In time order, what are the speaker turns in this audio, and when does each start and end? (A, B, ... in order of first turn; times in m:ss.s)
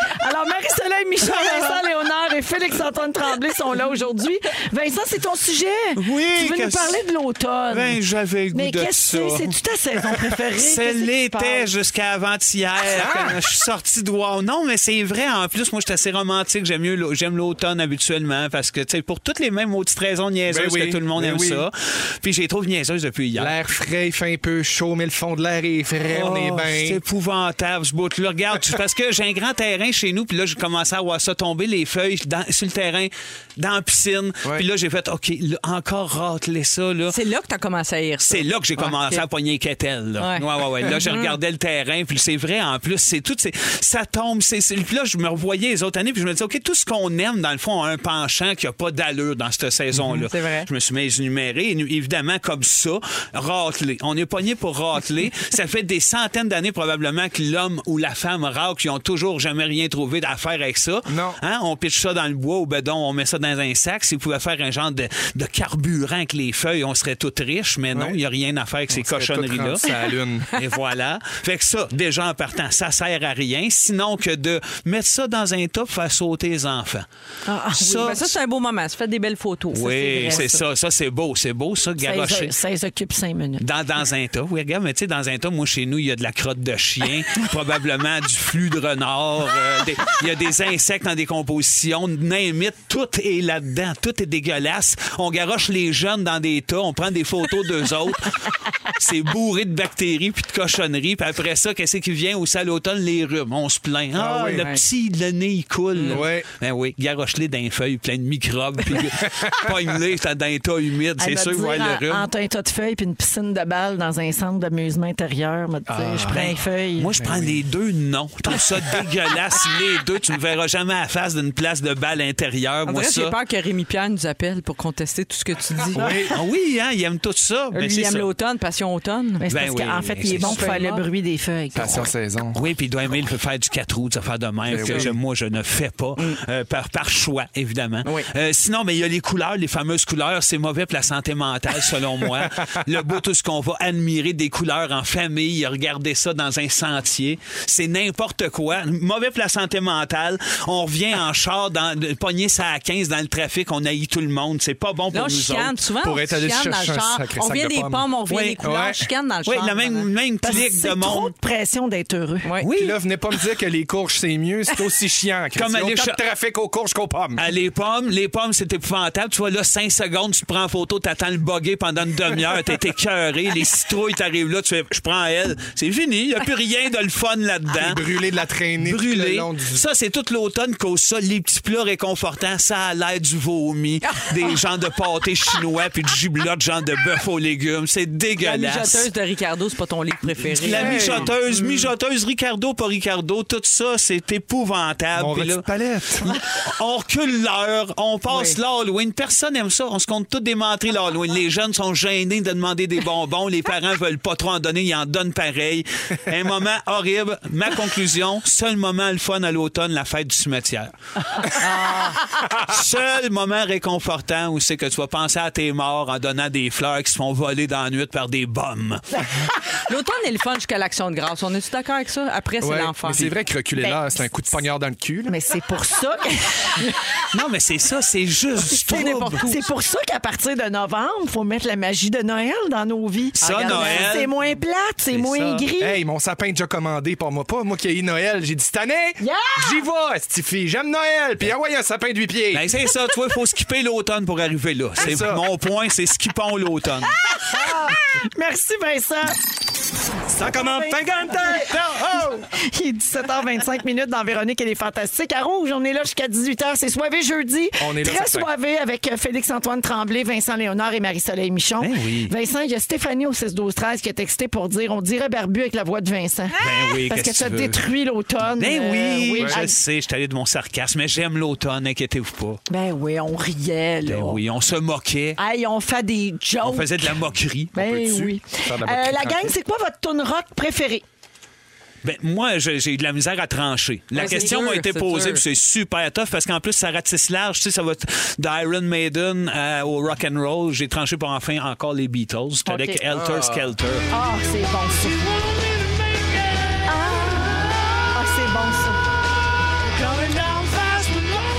0:00.2-0:08.0 A
0:01.2-0:01.8 B
0:06.0-0:07.0 B
0:07.7-0:09.5 B
0:08.5-0:11.7 A
0:10.5-0:23.6 B
0:12.9-0:13.4 C
0:20.5-0:21.6 C
0:23.4-0:27.0 C
0:26.1-0:37.2 B
0:37.1-0:39.2 D
0:38.2-1:09.9 B
0:40.2-0:41.4 D
0:50.1-0:50.7 D
1:01.1-1:01.4 C
1:08.9-1:10.5 C
1:10.5-1:17.1 B
1:17.4-1:18.2 A
1:17.7-1:18.3 B
1:17.9-1:20.5 D
1:19.7-1:22.5 B
1:20.1-1:20.6 A
1:22.0-1:23.6 A
1:23.6-1:52.3 B
1:44.1-1:44.7 C
1:44.5-1:44.8 D
1:46.1-1:46.4 C
1:51.2-1:57.1 A
1:55.9-1:56.6 C
1:57.0-2:03.3 B
1:57.2-1:57.6 C
2:02.8-2:06.2 D
2:05.9-2:06.4 C
2:06.0-2:08.3 B
2:07.7-2:09.4 D
2:09.4-2:12.1 A
2:09.5-2:10.8 B
2:10.3-2:11.0 D
2:11.7-2:12.6 C
2:12.5-2:35.8 B
2:14.7-2:15.2 C
2:14.8-2:15.0 D
2:18.0-2:18.3 D
2:35.1-2:40.1 D
2:36.0-2:38.1 C
2:38.3-2:38.6 B
2:38.6-2:39.0 C
2:39.4-2:41.3 B
2:40.4-2:42.5 A
2:42.4-2:42.7 D
2:42.6-2:43.0 B
2:42.7-2:47.4 C
2:45.5-2:46.2 B
2:47.4-2:58.2 B
2:57.7-2:59.8 C
2:58.8-3:09.1 B
3:04.0-3:04.5 D
3:08.4-3:11.9 D
3:10.4-3:39.0 B
3:10.7-3:11.3 C
3:15.2-3:16.3 C
3:18.3-3:18.6 D
3:31.6-3:32.2 D
3:39.9-3:43.3 D
3:42.6-3:45.3 C
3:43.7-3:44.6 A
3:45.3-3:47.0 A
3:47.3-3:49.5 B
3:48.7-3:49.7 D
3:49.4-3:56.0 A
3:53.4-3:54.3 B
3:53.4-3:54.1 D
3:55.1-3:55.6 B
3:55.8-4:02.7 C
3:59.2-3:59.8 A
4:02.5-4:07.1 B
4:05.0-4:05.4 C
4:07.3-4:09.3 A
4:10.3-4:12.3 C
4:10.4-4:29.8 A
4:17.8-4:18.5 C
4:21.8-4:22.3 B
4:26.6-4:27.8 B
4:28.5-4:32.6 B
4:29.3-4:29.6 C
4:32.7-4:34.4 A
4:34.0-4:35.4 B
4:35.4-4:37.2 A
4:36.6-4:37.7 B
4:37.7-4:39.5 C
4:37.7-4:41.0 A
4:42.0-4:54.1 B
4:44.1-4:45.4 D
4:52.6-4:53.0 A
4:53.1-4:53.7 C
4:54.1-4:55.4 A
4:56.8-4:59.0 A
5:00.0-5:01.1 A